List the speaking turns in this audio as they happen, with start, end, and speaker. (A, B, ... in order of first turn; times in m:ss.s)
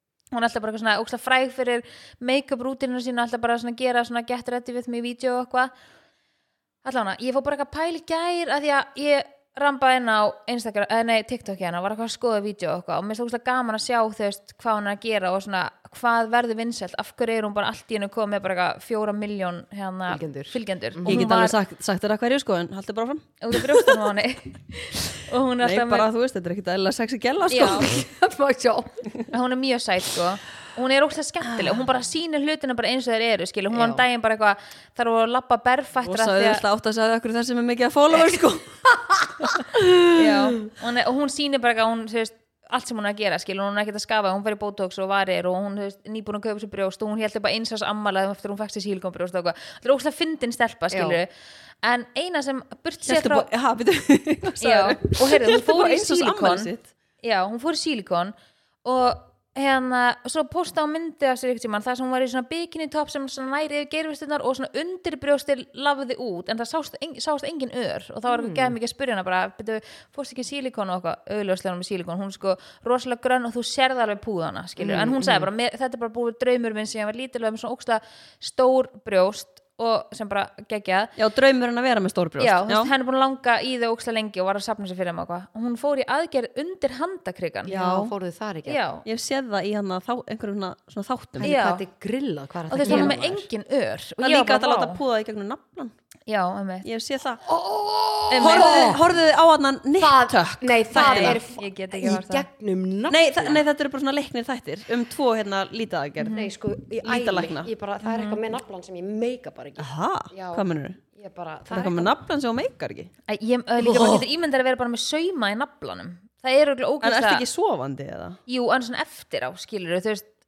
0:00.3-0:05.7 A
0:06.8-0:21.6 A
0:20.1-0:21.2 B
0:21.0-0:23.9 C
0:23.4-0:26.1 A
0:25.6-0:28.0 C
0:27.5-0:27.9 A
0:27.6-0:29.0 B
0:29.3-0:36.6 A
0:33.7-0:34.0 B
0:36.0-0:39.6 C
0:40.1-0:51.3 A
0:50.9-0:51.2 B
0:51.8-0:53.5 A
0:53.0-0:56.9 C
0:54.6-1:21.1 A
1:08.3-1:08.8 B
1:14.8-1:15.5 B
1:21.2-1:22.9 C
1:22.4-1:27.8 A
1:27.7-1:28.8 B
1:27.7-1:28.1 C
1:28.6-1:29.0 A
1:29.0-1:31.5 C
1:31.4-1:33.4 B
1:31.4-1:31.8 A
1:32.7-1:35.0 A
1:32.8-1:33.2 C
1:34.2-1:35.9 C
1:36.3-1:36.9 A
1:36.8-1:37.4 C
1:37.4-1:39.1 B
1:38.3-1:41.4 C
1:38.4-1:38.9 A
1:40.0-1:43.6 B
1:40.9-1:42.4 A
1:43.1-1:46.4 C
1:46.2-1:46.5 A
1:46.3-1:52.1 B
1:47.0-1:47.7 C
1:48.0-1:48.4 A
1:49.8-1:51.0 C
1:51.7-1:53.1 C
1:53.3-1:57.4 A
1:53.8-1:54.2 B
1:57.0-1:58.4 C
1:58.5-2:00.3 A